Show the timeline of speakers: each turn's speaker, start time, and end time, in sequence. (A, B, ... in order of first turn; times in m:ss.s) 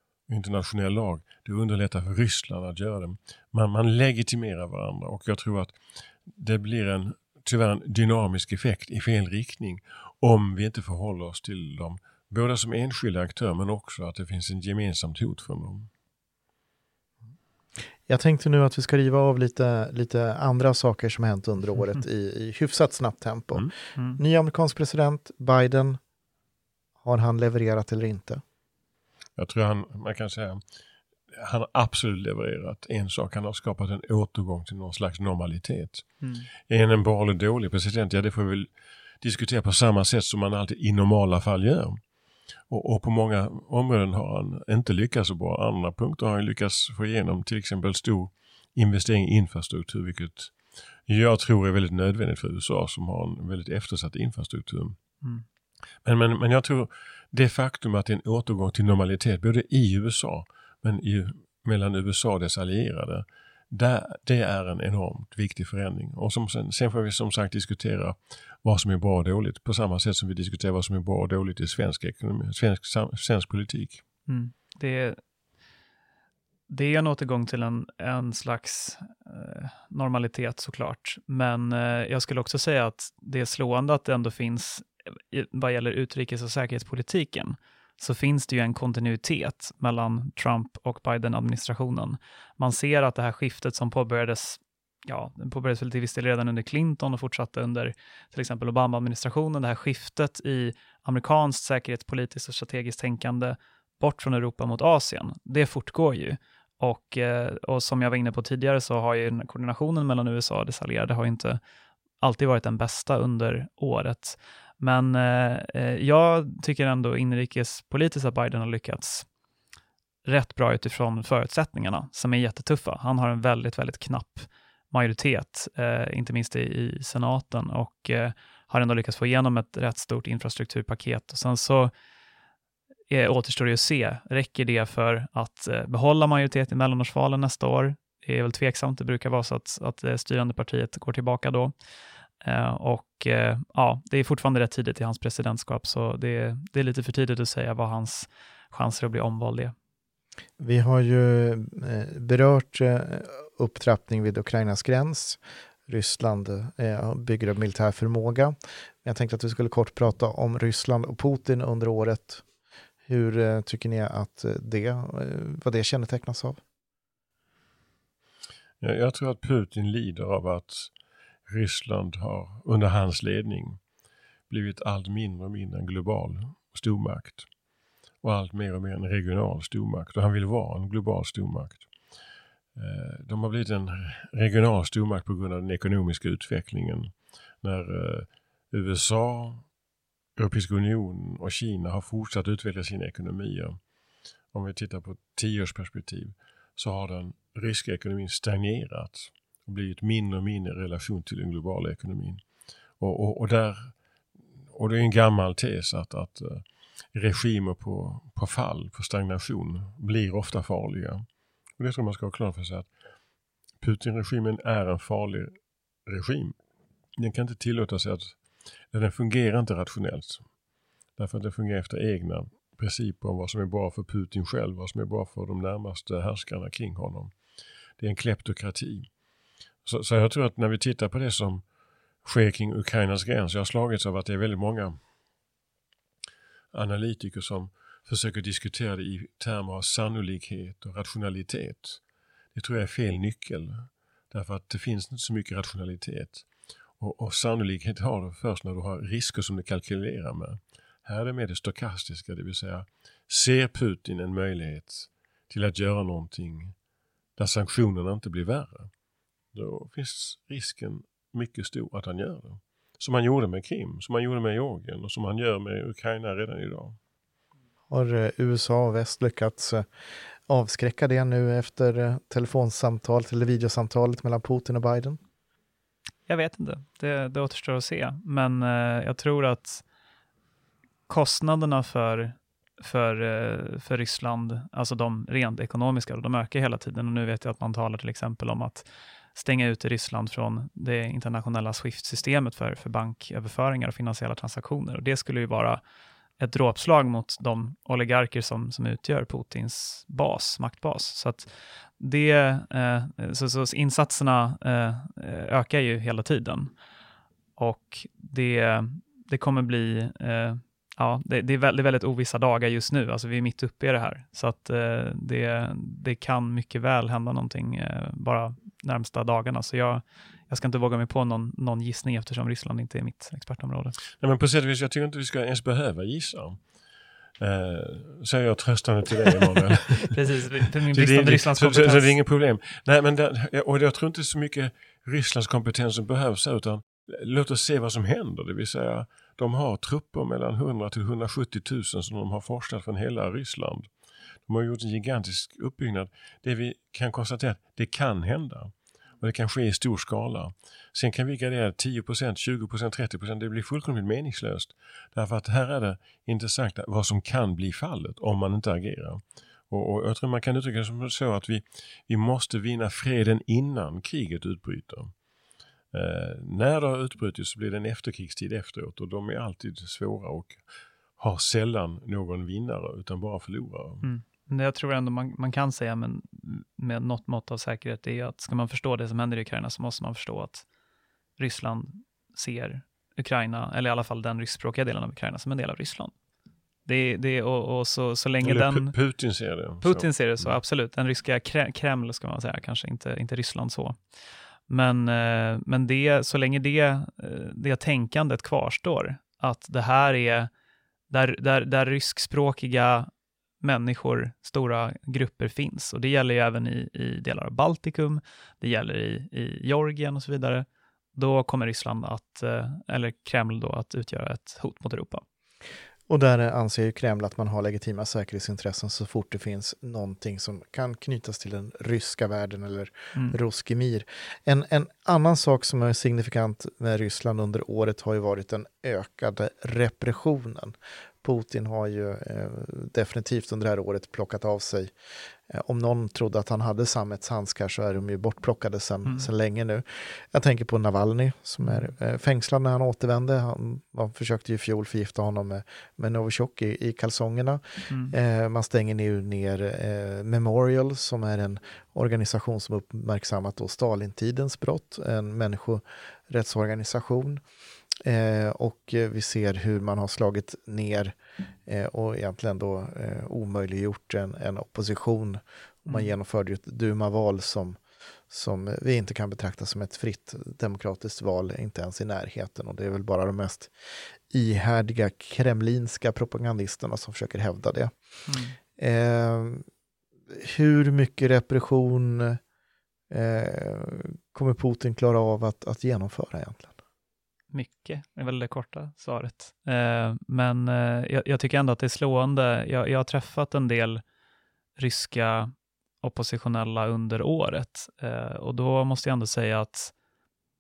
0:00.3-0:05.8 A
0:06.3-0:15.9 A
0:18.1-0:26.0 B
0:24.0-0:24.2 C
0:27.0-0:28.4 B
0:29.4-0:30.6 A
0:31.3-0:36.1 A
0:36.2-0:36.5 C
0:36.7-0:38.7 A
0:39.2-0:42.0 A
0:42.7-0:50.5 A
0:51.1-0:55.0 A
0:56.0-1:14.0 A
1:14.3-1:15.2 C
1:16.7-1:51.6 C
1:52.2-1:59.3 C
2:00.2-2:11.9 C
2:13.1-2:21.7 C
2:22.4-2:29.8 C
2:30.6-2:42.4 B
2:43.1-2:46.6 B
2:48.8-2:50.9 A
2:51.5-2:53.8 A
2:54.5-2:57.5 A
2:58.2-3:01.9 A
3:02.8-3:09.6 A
3:10.4-3:13.8 A
3:14.5-3:22.4 A
3:23.0-3:23.9 A
3:24.7-3:31.2 A
3:31.8-3:32.9 A
3:33.8-3:35.6 A
3:36.1-3:36.6 A
3:37.2-3:38.4 A
3:38.9-3:40.4 A
3:41.2-3:47.3 A
3:48.0-3:49.1 A
3:49.8-3:51.6 A
3:52.2-3:55.0 A
3:56.7-4:02.0 A
4:02.5-4:06.4 A
4:07.0-4:16.8 A
4:17.4-4:18.9 A
4:19.5-4:27.0 A
4:27.9-4:29.9 B
4:30.5-4:35.2 B
4:36.3-4:39.8 C
4:41.1-4:55.8 C
4:56.4-5:06.7 C
5:07.6-5:24.0 C
5:24.2-5:26.6 A
5:27.4-5:30.1 A
5:30.1-5:32.2 C
5:30.9-5:43.9 A
5:44.5-6:05.1 A
6:05.9-6:10.6 A
6:11.2-6:14.0 A
6:14.0-6:20.6 C
6:21.4-6:26.1 C
6:26.9-6:28.9 C
6:28.4-6:30.6 A
6:29.8-6:34.0 C
6:34.7-6:40.5 C
6:41.1-6:43.1 C
6:43.6-6:50.6 C
6:51.2-6:55.2 C
6:56.1-7:14.9 B
7:15.5-7:37.4 B
7:21.6-7:21.9 C
7:27.9-7:28.2 C
7:38.0-7:41.2 B
7:41.7-7:47.8 B
7:45.9-7:46.1 C
7:48.3-7:53.7 B
7:54.3-7:57.9 B
7:58.3-7:58.6 C
7:58.8-7:59.6 B
8:00.3-8:02.4 B
8:03.1-8:06.7 B
8:07.5-8:14.0 C
8:14.8-8:19.9 C